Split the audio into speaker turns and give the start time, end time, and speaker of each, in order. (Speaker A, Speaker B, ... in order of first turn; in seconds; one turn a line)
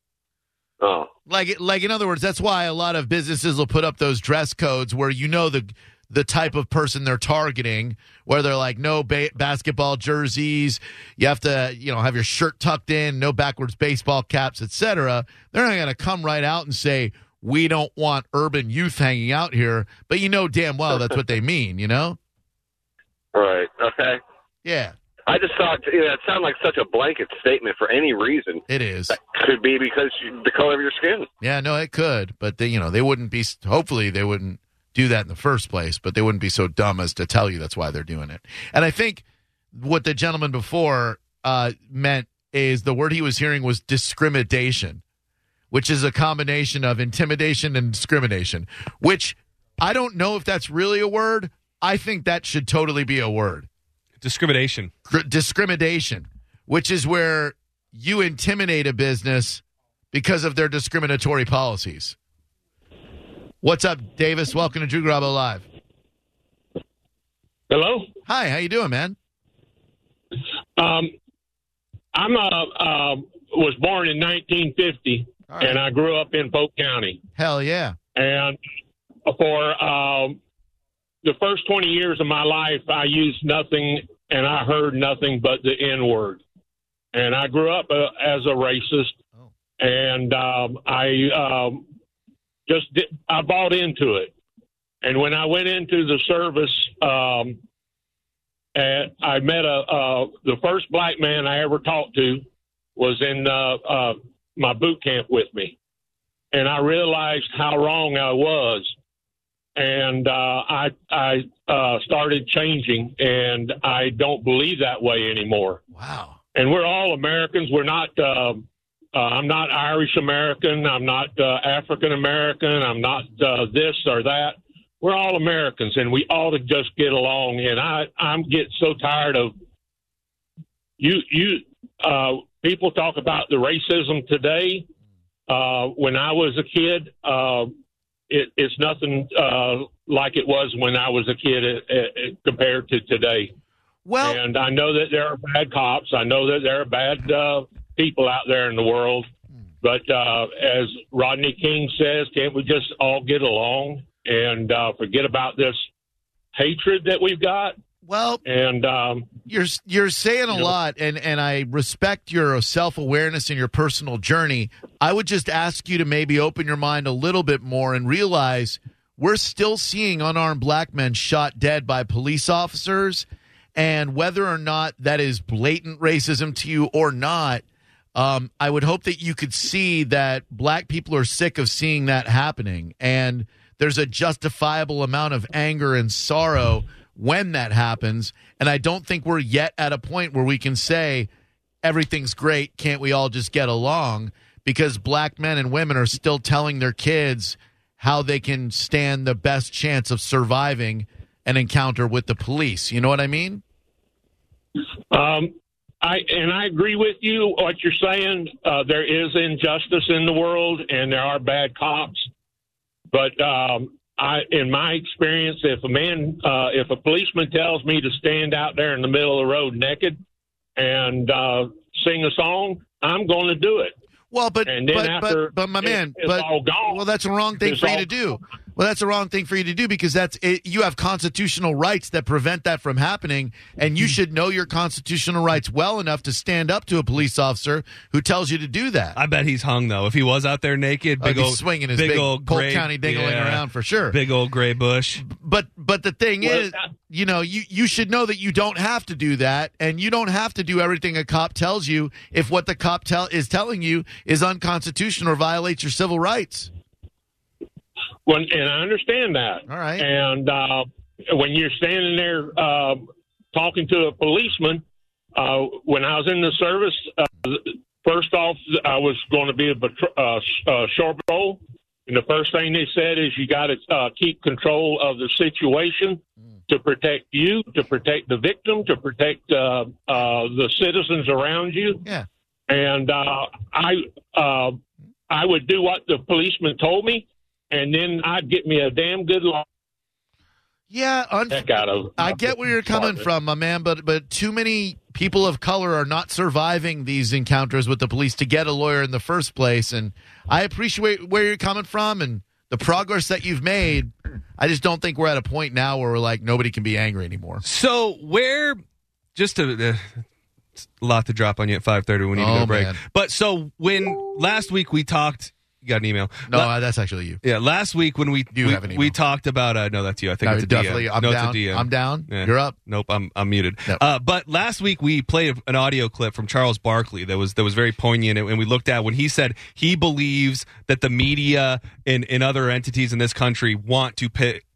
Speaker A: 0.8-1.1
Speaker B: 1.3-22.2
Speaker A: 23.3-24.2
Speaker B: 24.6-24.9
Speaker A: 25.2-31.3
Speaker B: 28.7-29.2
Speaker B: 31.4-45.0
Speaker B: 45.7-53.7
Speaker C: 54.2-54.9
Speaker B: 55.1-62.1
Speaker B: 63.6-65.7
Speaker D: 67.7-68.1
Speaker B: 68.2-69.2
Speaker D: 70.8-71.1
Speaker D: 72.1-77.2
Speaker B: 75.5-75.8
Speaker B: 77.3-78.0
Speaker D: 78.2-78.6
Speaker D: 79.2-80.4
Speaker D: 81.2-86.4
Speaker D: 87.1-89.1
Speaker D: 89.8-91.8
Speaker D: 92.7-94.3
Speaker D: 95.0-97.6
Speaker D: 98.7-105.7
Speaker D: 106.5-108.9
Speaker D: 109.8-115.8
Speaker B: 115.9-116.4
Speaker D: 116.5-129.5
Speaker D: 131.0-134.8
Speaker D: 135.5-137.7
Speaker D: 138.3-143.5
Speaker B: 144.0-144.4
Speaker D: 144.2-149.2
Speaker D: 149.8-155.8
Speaker D: 156.5-157.8
Speaker B: 158.0-158.4
Speaker D: 158.4-159.3
Speaker B: 159.5-177.6
Speaker B: 178.1-191.3
Speaker B: 191.8-203.6
Speaker D: 205.1-212.3
Speaker D: 213.1-220.2
Speaker D: 220.8-223.9
Speaker B: 224.3-239.2
Speaker D: 224.7-227.0
Speaker D: 227.6-228.1
Speaker C: 239.2-245.2
Speaker B: 241.2-244.2
Speaker B: 245.2-256.7
Speaker D: 258.2-264.8
Speaker B: 259.7-260.1
Speaker D: 265.3-282.0
Speaker D: 282.7-284.8
Speaker D: 285.3-289.6
Speaker B: 290.9-307.6
Speaker D: 291.5-293.2
Speaker C: 307.6-308.8
Speaker C: 309.4-310.2
Speaker C: 311.0-316.7
Speaker B: 312.3-313.0
Speaker B: 316.5-317.4
Speaker C: 317.4-334.6
Speaker B: 318.5-319.1
Speaker B: 320.4-322.8